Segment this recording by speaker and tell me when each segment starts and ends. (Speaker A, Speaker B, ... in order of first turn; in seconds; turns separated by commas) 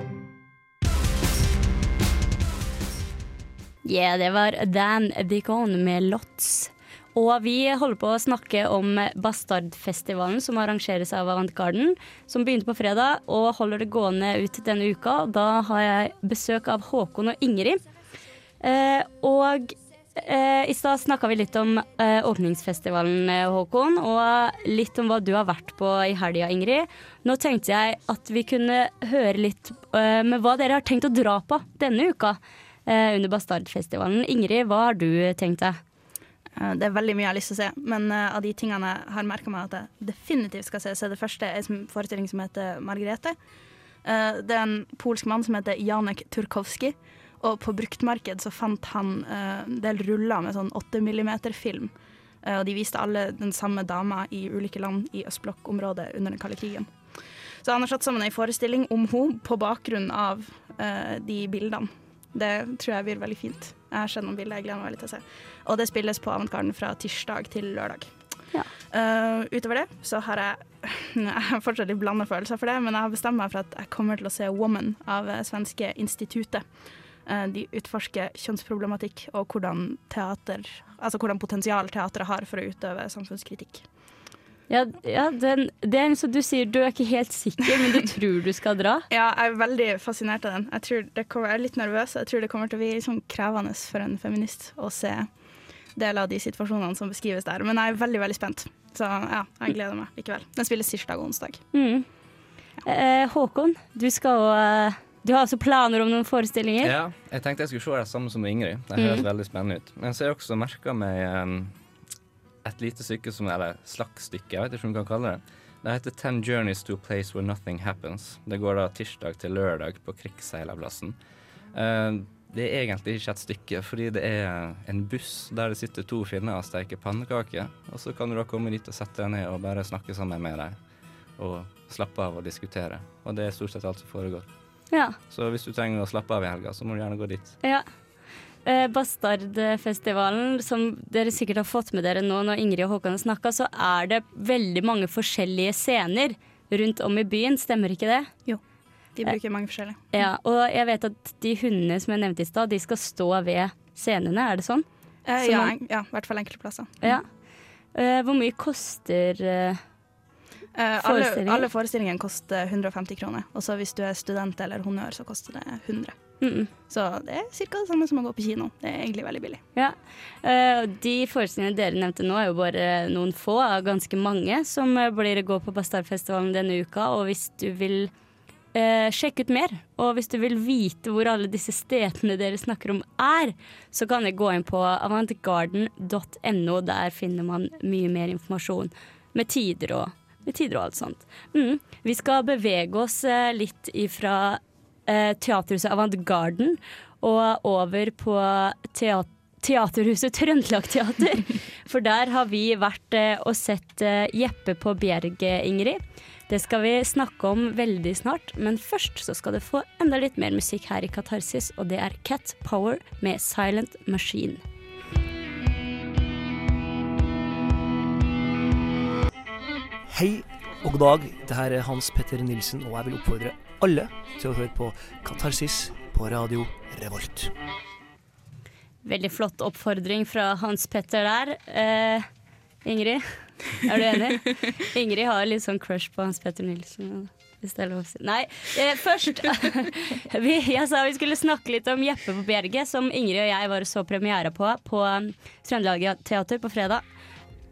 Speaker A: 3.8-17.8, Speaker A: 18.6-35.8, Speaker B: 36.5-43.4, Speaker B: 44.0-84.2, Speaker A: 84.7-89.1, Speaker B: 89.1-101.6, Speaker A: 101.7-102.1, Speaker A: 102.8-106.9, Speaker C: 106.8-111.8, Speaker A: 109.0-109.2, Speaker C: 112.6-121.2, Speaker C: 121.7-130.8, Speaker C: 131.4-134.5, Speaker A: 134.9-135.2, Speaker C: 135.2-137.6, Speaker A: 138.7-148.3, Speaker B: 149.2-150.1, Speaker A: 150.1-154.9, Speaker B: 155.3-157.1, Speaker A: 155.4-155.7, Speaker A: 157.0-157.3, Speaker A: 157.9-159.8, Speaker B: 160.7-169.6, Speaker A: 161.0-161.7, Speaker A: 166.4-166.7, Speaker A: 169.8-178.1, Speaker A: 178.7-214.6, Speaker D: 220.1-227.6, Speaker A: 229.1-232.3, Speaker A: 232.8-247.0